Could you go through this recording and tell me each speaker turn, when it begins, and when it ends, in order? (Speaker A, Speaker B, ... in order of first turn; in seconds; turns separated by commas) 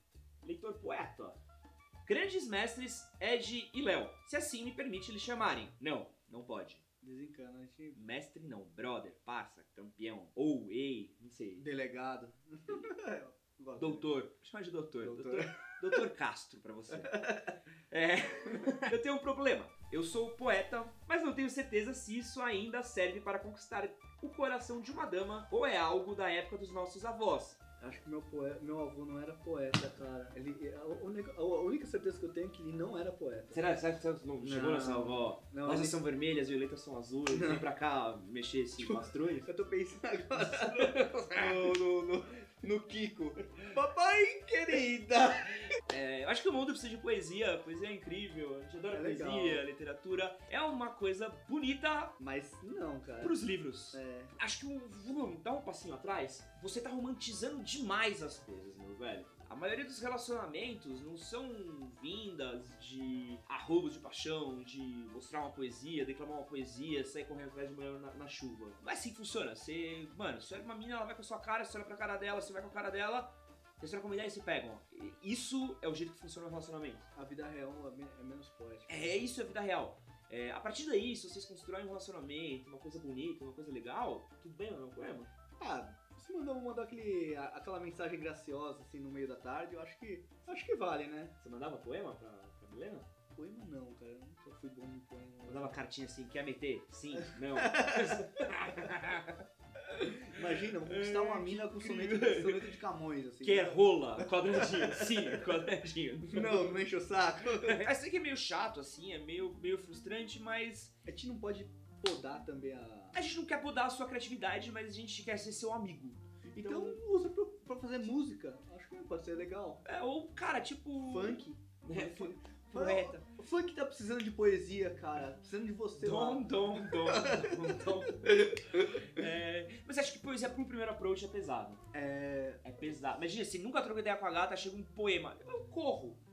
Speaker A: 0.4-1.4, Speaker A: 2.0-6.8, Speaker B: 7.0-8.0, Speaker A: 7.9-11.6, Speaker B: 11.6-14.1, Speaker A: 13.8-17.3, Speaker B: 15.0-15.6, Speaker B: 17.0-17.5, Speaker A: 17.9-27.6, Speaker B: 27.8-33.6, Speaker A: 33.5-39.5, Speaker B: 34.4-36.0, Speaker B: 37.3-37.7, Speaker B: 38.8-45.8, Speaker A: 40.3-41.8, Speaker A: 45.9-52.1, Speaker B: 48.9-49.6, Speaker B: 52.2-53.4, Speaker A: 53.2-77.0, Speaker B: 53.9-54.4, Speaker B: 77.1-79.3, Speaker A: 78.9-85.3, Speaker B: 85.6-91.3, Speaker A: 91.4-93.1, Speaker B: 93.3-95.8, Speaker A: 95.5-102.6, Speaker B: 97.2-98.5, Speaker B: 100.1-105.4, Speaker A: 103.4-106.8, Speaker B: 106.2-107.8, Speaker A: 107.6-110.9, Speaker B: 111.0-113.2, Speaker A: 113.1-117.0, Speaker B: 116.5-119.8, Speaker A: 119.8-123.2, Speaker B: 121.0-129.2, Speaker A: 126.0-131.8, Speaker B: 131.9-132.6, Speaker A: 132.6-136.2